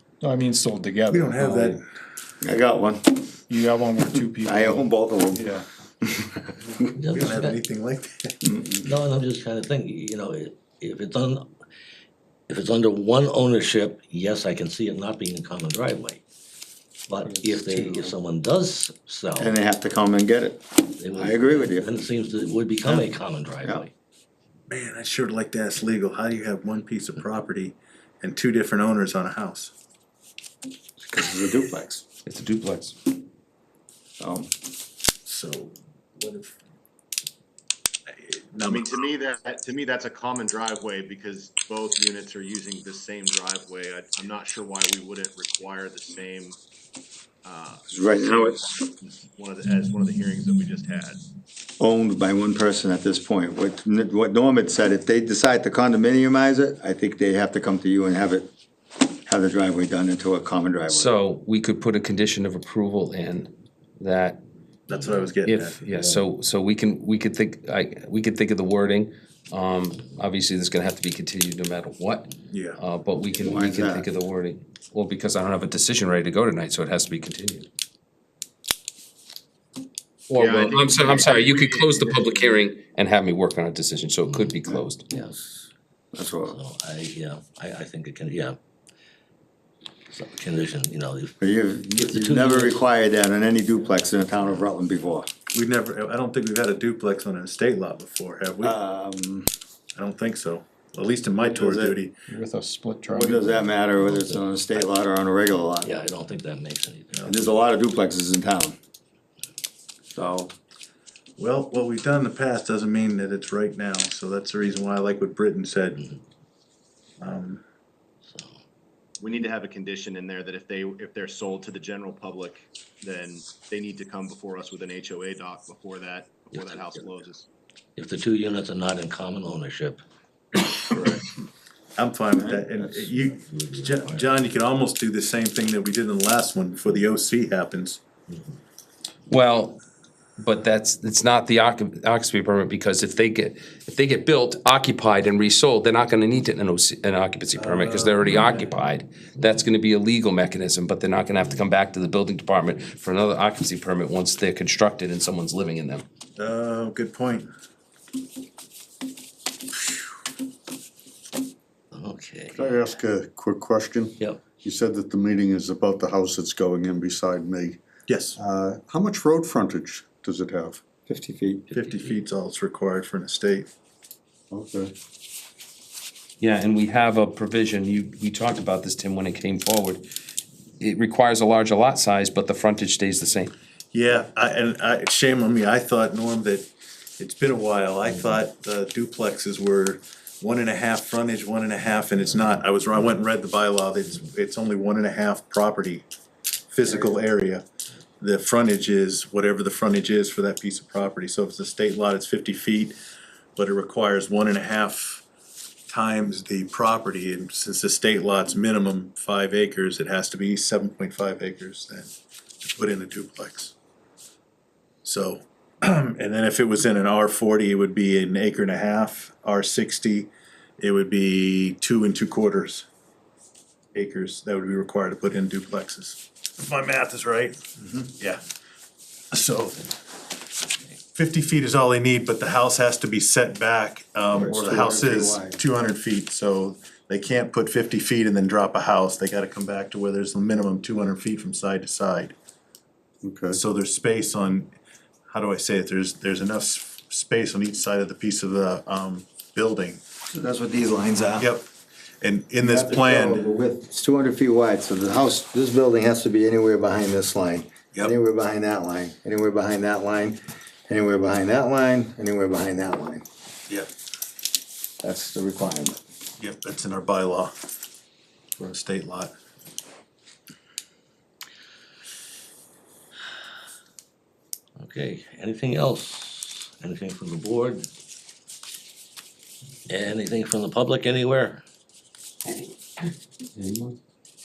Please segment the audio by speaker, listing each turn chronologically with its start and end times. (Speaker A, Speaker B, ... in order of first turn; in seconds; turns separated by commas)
Speaker A: 0.2-1.7, Speaker B: 1.1-1.8, Speaker C: 2.4-3.3, Speaker A: 3.5-5.6, Speaker C: 4.3-6.9, Speaker D: 7.0-7.6, Speaker B: 7.1-8.4, Speaker C: 8.4-8.9, Speaker D: 8.8-11.4, Speaker D: 12.5-16.2, Speaker A: 17.2-18.0, Speaker D: 17.2-19.5, Speaker C: 19.4-22.0, Speaker D: 21.0-23.9, Speaker B: 24.7-29.7, Speaker C: 31.0-32.0, Speaker E: 32.2-33.0, Speaker C: 34.2-34.5, Speaker B: 35.2-36.5, Speaker B: 38.2-39.0, Speaker F: 38.7-46.6, Speaker F: 47.4-51.2, Speaker C: 47.9-48.7, Speaker C: 51.8-58.5, Speaker C: 59.2-61.1, Speaker E: 60.9-64.4, Speaker B: 64.9-65.8, Speaker E: 65.4-77.7, Speaker B: 72.5-72.8, Speaker C: 73.4-74.1, Speaker E: 80.3-85.0, Speaker F: 80.3-82.6, Speaker D: 85.1-85.5, Speaker C: 86.1-86.6, Speaker D: 86.2-88.6, Speaker D: 90.1-91.3, Speaker C: 91.4-95.3, Speaker D: 91.9-92.8, Speaker B: 95.5-98.7, Speaker C: 98.6-99.5, Speaker B: 100.0-102.2, Speaker C: 101.4-101.9, Speaker A: 102.3-103.7, Speaker C: 103.1-106.0, Speaker D: 104.0-104.9, Speaker D: 105.8-107.3, Speaker C: 107.2-108.8, Speaker C: 110.1-110.5, Speaker B: 111.4-116.0, Speaker B: 117.2-117.6, Speaker D: 118.3-118.5, Speaker F: 119.2-127.5, Speaker D: 126.5-126.9, Speaker D: 128.0-130.0, Speaker B: 132.0-138.0, Speaker C: 132.3-133.1, Speaker D: 133.5-134.3, Speaker E: 139.3-139.8, Speaker E: 140.4-156.0, Speaker B: 147.6-148.5, Speaker B: 156.3-157.5, Speaker D: 161.9-162.8, Speaker G: 162.5-167.8, Speaker B: 168.1-168.4, Speaker G: 168.3-170.8, Speaker C: 171.1-171.7, Speaker B: 171.7-173.7, Speaker G: 174.5-174.9, Speaker E: 176.4-180.0, Speaker E: 180.8-183.5, Speaker B: 183.9-186.7, Speaker B: 187.2-196.1, Speaker B: 196.7-197.6, Speaker B: 198.2-202.9, Speaker B: 203.6-205.2, Speaker B: 205.9-212.1, Speaker B: 212.6-213.7, Speaker B: 215.0-222.8, Speaker B: 223.9-227.6, Speaker C: 227.8-228.1, Speaker B: 228.2-228.4, Speaker B: 229.3-229.9, Speaker B: 231.1-242.3, Speaker C: 234.3-235.6, Speaker G: 243.2-243.6, Speaker B: 243.5-244.7, Speaker B: 245.3-250.0, Speaker C: 250.3-251.5, Speaker B: 251.4-251.7, Speaker B: 252.2-253.4, Speaker C: 252.6-263.2, Speaker C: 265.0-266.0, Speaker B: 266.4-267.5, Speaker B: 268.6-269.3, Speaker D: 274.8-277.9, Speaker D: 279.9-281.6, Speaker E: 283.5-284.0